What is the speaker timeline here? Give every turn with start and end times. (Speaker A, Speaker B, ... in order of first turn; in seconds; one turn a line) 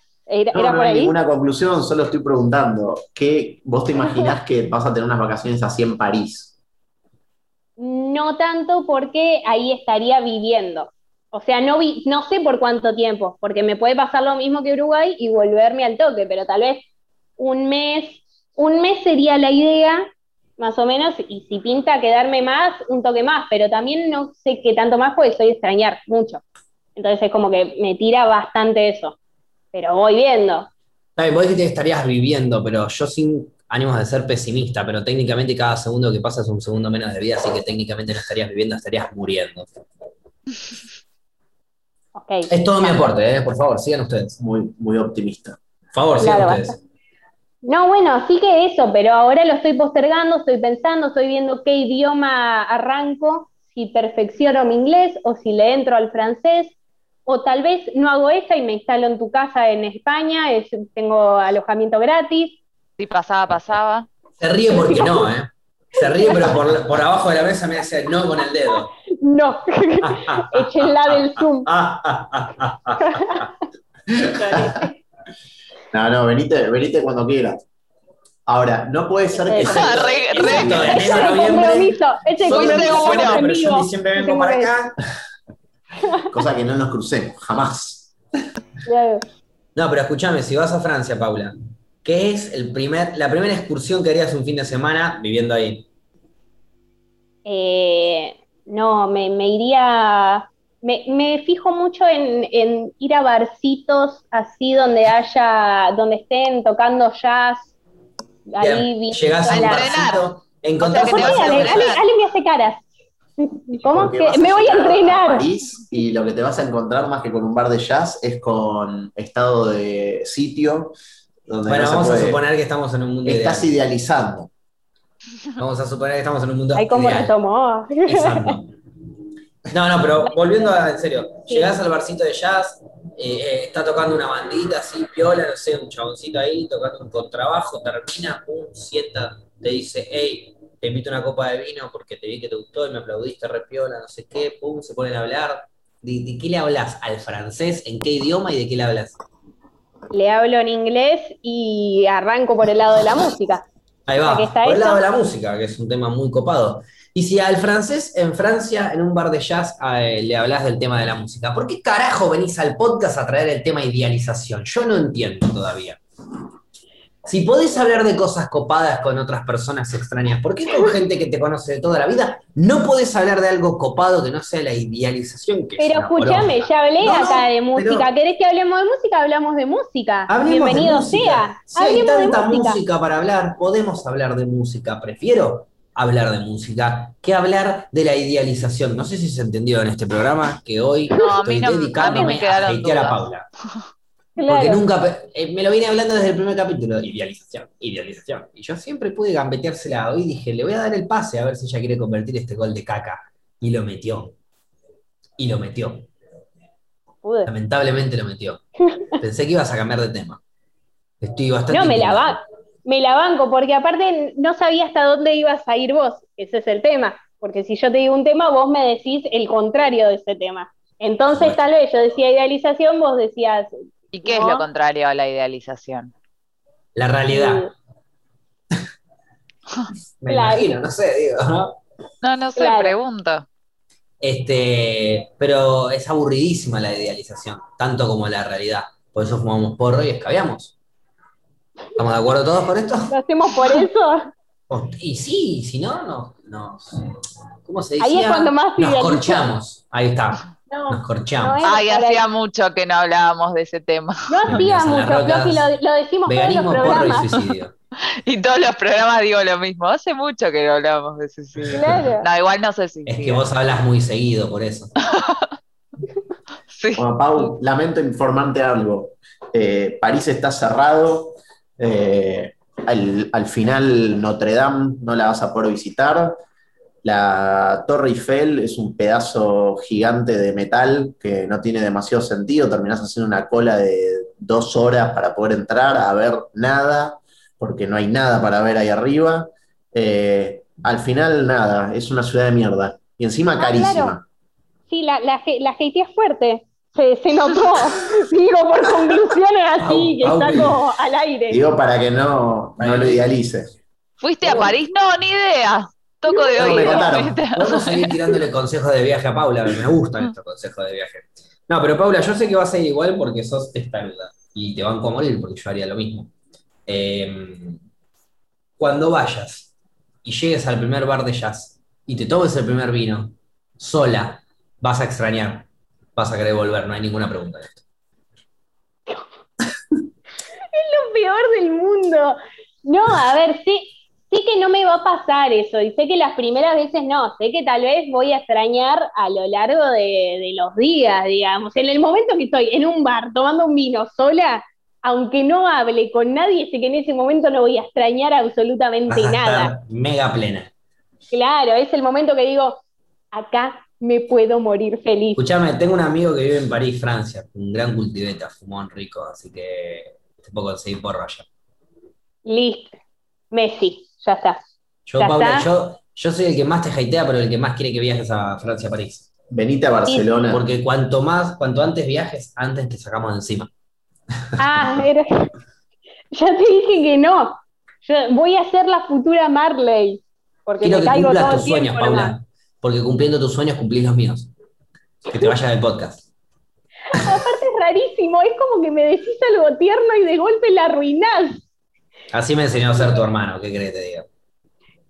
Speaker A: 0.3-1.1
Speaker B: 0.5-6.5
Speaker A: 7.8-16.8
Speaker A: 17.4-20.1
Speaker A: 20.6-26.4
Speaker A: 26.9-29.1
Speaker A: 29.7-30.7
Speaker C: 31.2-39.7
Speaker A: 42.1-43.1
Speaker C: 42.5-44.4
Speaker B: 44.4-45.6
Speaker C: 45.9-46.8
Speaker A: 46.2-46.7
Speaker A: 47.6-56.7
Speaker A: 57.2-62.6
Speaker D: 63.0-64.1
Speaker C: 64.4-68.9
Speaker A: 64.7-65.3
Speaker A: 66.2-66.6
Speaker A: 69.1-71.7
Speaker C: 70.0-73.5
Speaker A: 73.0-73.5
Speaker A: 74.2-74.9
Speaker B: 74.5-74.8
Speaker B: 75.9-77.6
Speaker B: 78.5-81.2
Speaker A: 79.3-79.8
Speaker D: 79.6-81.2
Speaker C: 79.9-85.0
Speaker A: 80.8-84.7
Speaker D: 82.4-83.4
Speaker B: 86.3-88.1
Speaker A: 88.8-89.2
Speaker C: 89.7-95.9
Speaker A: 97.4-107.7
Speaker A: 108.5-110.1
Speaker C: 108.6-112.0
Speaker D: 109.5-110.2
Speaker D: 110.8-112.0
Speaker A: 111.0-112.8
Speaker A: 113.4-115.4
Speaker B: 113.8-120.9
Speaker B: 121.5-122.4
Speaker C: 121.7-123.7
Speaker B: 123.2-124.5
Speaker C: 125.6-127.3
Speaker A: 126.7-128.6
Speaker C: 128.1-128.7
Speaker C: 129.7-149.2
Speaker A: 150.1-153.7
Speaker C: 154.1-166.0
Speaker A: 154.2-155.0
Speaker C: 167.2-178.1
Speaker A: 175.8-182.8
Speaker C: 180.3-193.5
Speaker D: 191.1-193.3
Speaker A: 192.1-192.3
Speaker A: 194.3-194.8
Speaker C: 194.5-204.3
Speaker C: 205.4-206.1
Speaker A: 207.2-207.5
Speaker C: 207.4-208.6
Speaker C: 209.2-210.4
Speaker C: 211.2-212.4
Speaker A: 211.7-223.7
Speaker C: 221.3-221.6
Speaker D: 224.1-226.1
Speaker A: 224.2-224.6
Speaker C: 226.9-227.7
Speaker A: 227.3-227.7
Speaker C: 230.2-231.8
Speaker A: 230.3-230.7
Speaker D: 232.2-233.4
Speaker A: 232.6-232.9
Speaker C: 234.2-240.7
Speaker C: 241.9-243.1
Speaker A: 243.1-244.3
Speaker C: 244.7-247.0
Speaker C: 247.6-251.6
Speaker A: 248.0-249.5
Speaker A: 250.7-252.2
Speaker D: 251.6-254.5
Speaker A: 254.3-257.3
Speaker C: 254.5-255.7
Speaker C: 256.2-257.7
Speaker D: 258.2-263.4
Speaker C: 261.6-262.0
Speaker A: 261.7-262.3
Speaker C: 263.1-264.9
Speaker D: 265.0-265.5
Speaker D: 266.7-267.5
Speaker B: 266.9-276.4
Speaker B: 277.0-294.2
Speaker A: 293.6-294.1
Speaker A: 294.9-301.6
Speaker C: 299.8-300.8
Speaker B: 301.5-303.7
Speaker C: 302.8-303.2
Speaker D: 304.2-308.1
Speaker A: 306.3-307.1
Speaker B: 306.6-307.4
Speaker C: 307.4-316.3
Speaker C: 316.9-317.8
Speaker C: 318.8-319.7
Speaker C: 320.2-327.8
Speaker A: 330.7-349.7
Speaker C: 349.1-350.7
Speaker A: 351.3-352.8
Speaker A: 353.3-355.4
Speaker C: 355.4-361.4
Speaker A: 362.4-362.9
Speaker A: 363.5-364.6
Speaker C: 365.1-369.3
Speaker A: 365.2-365.7
Speaker B: 369.5-370.6
Speaker C: 370.5-373.7
Speaker A: 374.6-375.5
Speaker A: 376.3-382.3
Speaker C: 380.8-384.5
Speaker C: 385.3-386.3
Speaker A: 387.1-391.6
Speaker C: 392.3-394.3